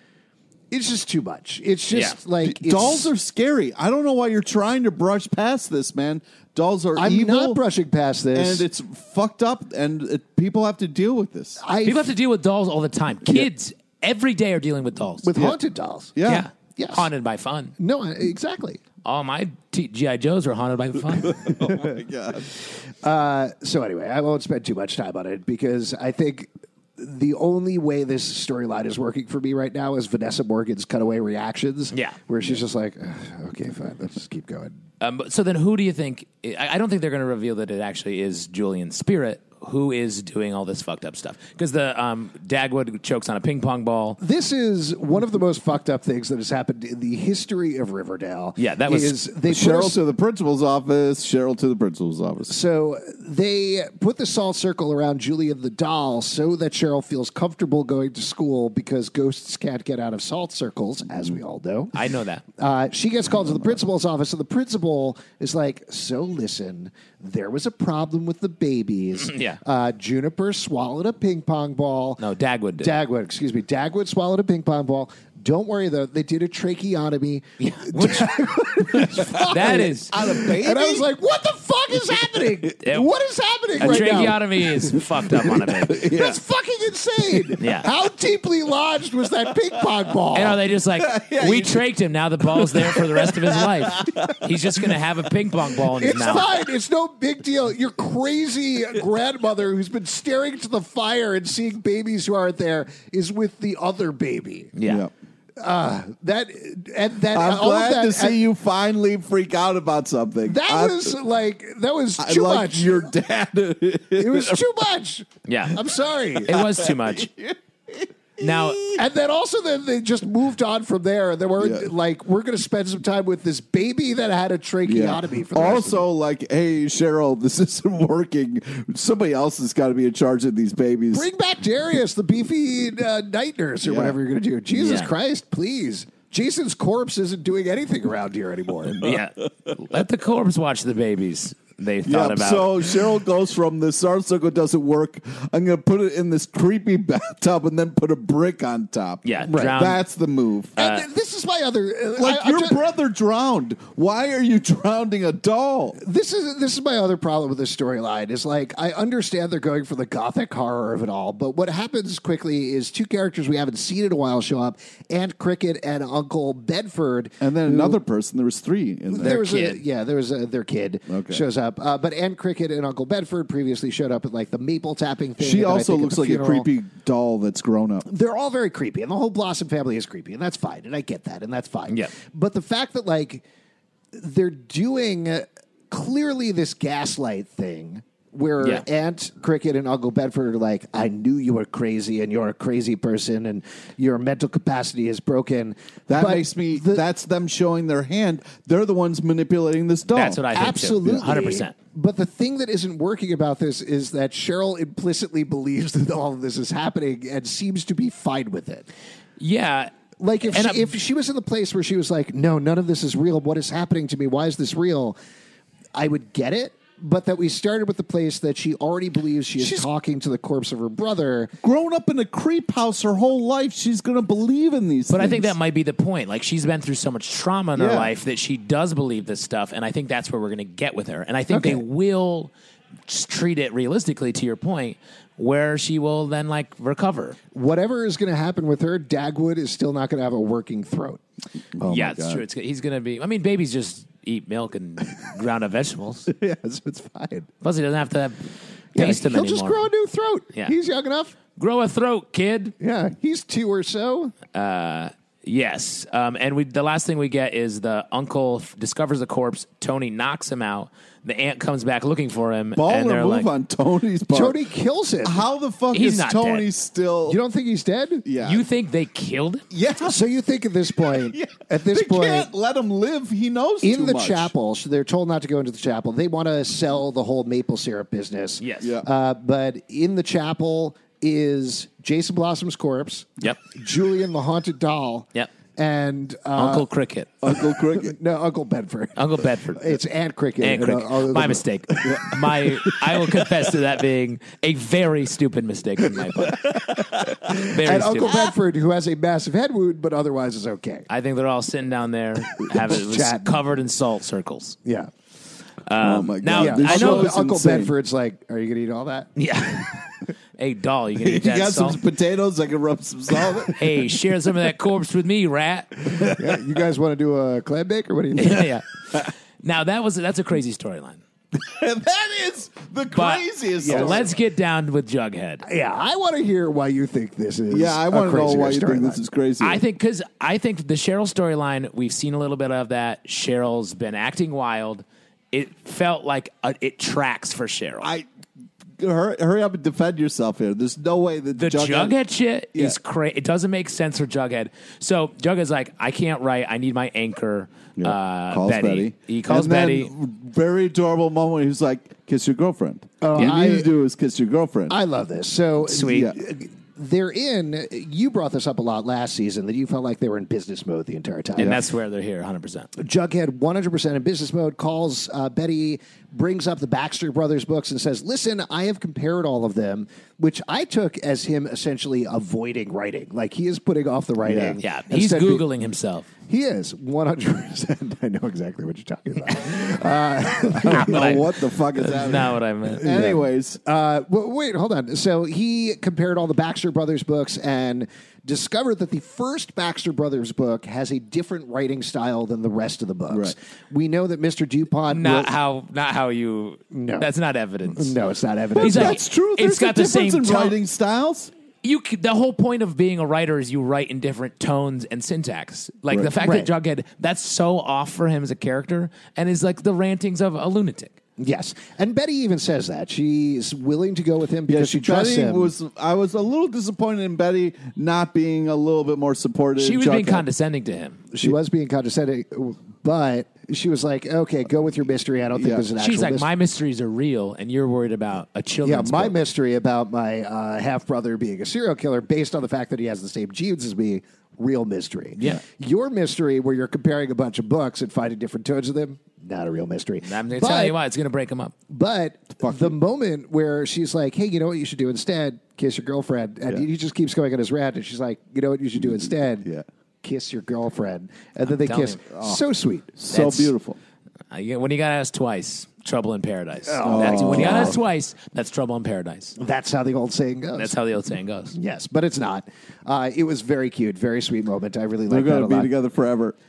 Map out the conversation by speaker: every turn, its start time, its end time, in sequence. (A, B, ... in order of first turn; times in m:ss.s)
0:00.7-0:03.1 A
0:01.9-0:02.2 B
0:02.4-0:07.6 C
0:07.0-0:08.7 A
0:08.4-0:11.6 C
0:11.6-0:12.1 A
0:11.8-0:15.3 B
0:15.2-0:17.1 A
0:16.2-0:16.5 C
0:16.2-0:17.8 B
0:17.8-0:18.8 A
0:19.0-0:21.6 B
0:21.2-0:22.5 C
0:21.7-0:21.9 A
0:22.6-0:34.8 A
0:31.9-0:32.2 B
0:35.0-0:44.2 B
0:44.2-0:50.0 A
0:48.6-0:49.2 B
0:49.5-0:52.6 C
0:52.5-1:02.0 A
1:01.9-1:02.4 B
1:02.6-1:12.2 A
1:09.2-1:09.6 B
1:12.2-1:13.0 B
1:12.8-1:30.6 A
1:17.6-1:20.1 B
1:19.1-1:21.1 C
1:22.8-1:23.1 B
1:23.8-1:26.1 B
1:23.8-1:25.0 C
1:25.8-1:26.4 C
1:27.6-1:27.9 B
1:30.3-1:36.6 B
1:31.0-1:31.8 C
1:32.4-1:35.0 C
1:36.0-1:44.8 A
1:44.8-1:45.0 B
1:45.6-1:48.4 A
1:47.3-1:51.1 C
1:50.5-1:53.1 A
1:52.2-1:54.7 C
1:54.1-1:56.6 A
1:55.5-1:55.8 B
1:56.4-1:57.3 B
1:56.5-1:59.0 C
1:58.4-1:59.0 B
1:58.9-2:06.0 A
2:01.6-2:01.9 C
2:04.9-2:11.3 C
2:11.1-2:19.2 A
2:13.8-2:14.2 C
2:14.7-2:15.1 B
2:19.0-2:22.9 B
2:22.1-2:30.8 C
2:29.2-2:30.0 B
2:29.5-2:29.8 A
2:30.8-2:31.1 B
2:30.8-2:32.8 A
2:32.2-2:36.0 C
2:36.0-2:48.0 A
2:47.4-2:49.6 C
2:49.1-2:56.7 A
2:49.2-2:49.8 B
2:51.1-2:51.4 C
2:55.4-2:58.1 C
2:58.1-3:03.4 A
3:04.1-3:17.0 A
3:16.1-3:20.4 C
3:20.1-3:21.8 B
3:20.5-3:28.9 A
3:29.4-3:29.9 B
3:30.2-3:35.2 A
3:30.5-3:30.9 B
3:36.0-3:41.5 A
3:41.6-3:45.6 C
3:45.1-3:52.5 B
3:47.8-3:48.1 C
3:51.5-3:51.8 A
3:53.1-3:57.4 B
3:57.5-4:01.2 A
4:01.8-4:02.4 C
4:01.9-4:06.3 B
4:06.3-4:07.5 A
4:07.6-4:09.9 B
4:08.9-4:11.4 A
4:11.6-4:12.7 B
4:12.8-4:14.4 A
4:14.5-4:23.5 B
4:22.8-4:24.6 C
4:24.3-4:25.5 A
4:25.2-4:27.4 C
4:25.9-4:26.7 B
4:27.3-4:28.3 A
4:28.2-4:28.7 C
4:28.4-4:29.6 B
4:29.7-4:30.2 C
4:30.0-4:32.5 A
4:31.1-4:34.5 C
4:33.8-4:46.9 A
4:38.6-4:38.9 B
4:38.8-4:39.1 C
4:46.6-4:47.3 B
4:47.4-4:48.2 C
4:47.5-4:53.3 A
4:49.2-4:49.9 B
4:50.6-4:56.8 B
4:56.6-5:01.1 A
4:57.6-4:58.5 B
5:01.1-5:04.8 B
5:02.5-5:03.6 A
5:04.8-5:05.1 A
5:05.9-5:07.3 B
5:06.0-5:07.9 C
5:06.5-5:09.3 A
5:09.4-5:10.0 B
5:10.6-5:12.0 B
5:11.2-5:14.1 C
5:13.7-5:16.2 B
5:16.1-5:18.7 A
5:18.4-5:21.2 B
5:21.6-5:24.3 C
5:23.1-5:25.6 B
5:23.8-5:24.3 A
5:25.6-5:29.2 A
5:27.7-5:29.8 C
5:29.6-5:38.1 B
5:38.0-5:38.3 C
5:39.0-5:42.2 C
5:41.6-5:50.1 B
5:48.0-5:55.0 C
5:53.2-5:53.9 A
5:54.9-6:01.8 A
5:55.8-5:56.3 B
5:56.0-5:56.4 C
6:01.6-6:02.9 B
6:03.0-6:15.6 A
6:14.5-6:14.8 C
6:14.8-6:16.3 B
6:16.5-6:21.4 A
6:20.8-6:23.8 C
6:20.8-6:23.1 B
6:23.0-6:35.5 A
6:35.1-6:38.2 B
6:36.9-6:37.3 A
6:37.9-6:39.2 A
6:38.8-6:41.5 C
6:38.8-6:40.8 B
6:41.8-6:51.2 B
6:46.4-6:46.7 A
6:51.4-6:55.7 A
6:54.7-7:00.5 C
6:59.8-7:01.2 B
7:01.3-7:06.5 A
7:05.6-7:05.8 C
7:06.0-7:09.4 B
7:08.8-7:21.0 A
7:20.2-7:21.7 B
7:21.9-7:29.7 A
7:22.6-7:22.9 C
7:29.0-7:29.8 C
7:30.2-7:33.7 A
7:31.6-7:32.2 B
7:32.3-7:32.6 C
7:33.2-7:34.0 C
7:33.3-7:33.7 B
7:34.5-7:39.6 B
7:36.8-7:38.0 A
7:37.0-7:38.0 C
7:39.6-7:40.9 A
7:40.8-7:41.8 B
7:41.7-7:45.9 A
7:45.3-7:46.6 C